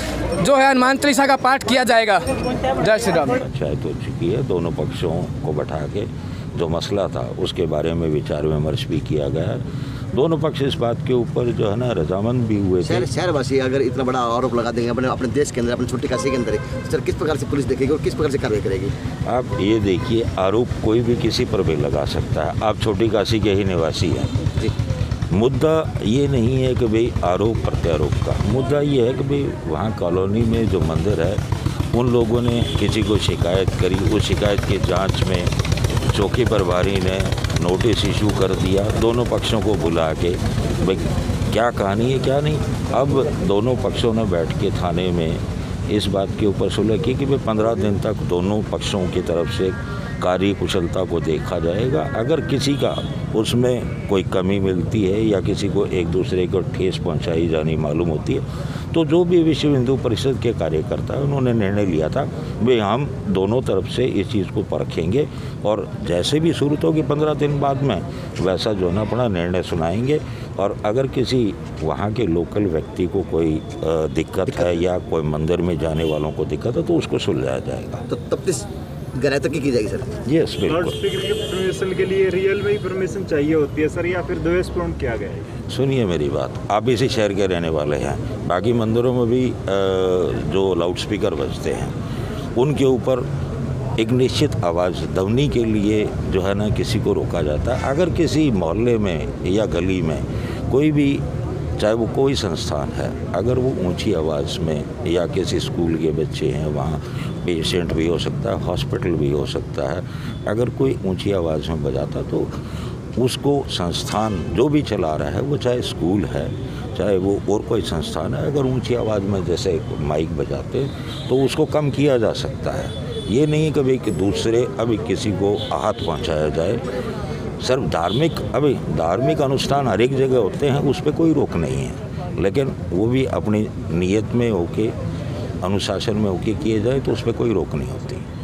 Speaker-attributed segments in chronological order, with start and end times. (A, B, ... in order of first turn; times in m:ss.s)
0:00.4-0:03.3 A
0:03.4-0:13.1 B
0:12.8-0:18.9 C
0:19.3-0:24.3 B
0:25.3-0:31.4 B
0:31.9-0:35.5 B
0:36.1-1:18.0 B
1:18.1-1:20.1 C
1:20.2-1:21.0 B
1:20.7-1:25.5 D
1:25.7-1:31.9 B
1:32.6-1:33.2 B
1:34.0-1:41.2 B
1:41.8-1:52.5 B
1:53.2-2:06.8 B
2:07.6-2:14.9 B
2:15.6-2:18.2 B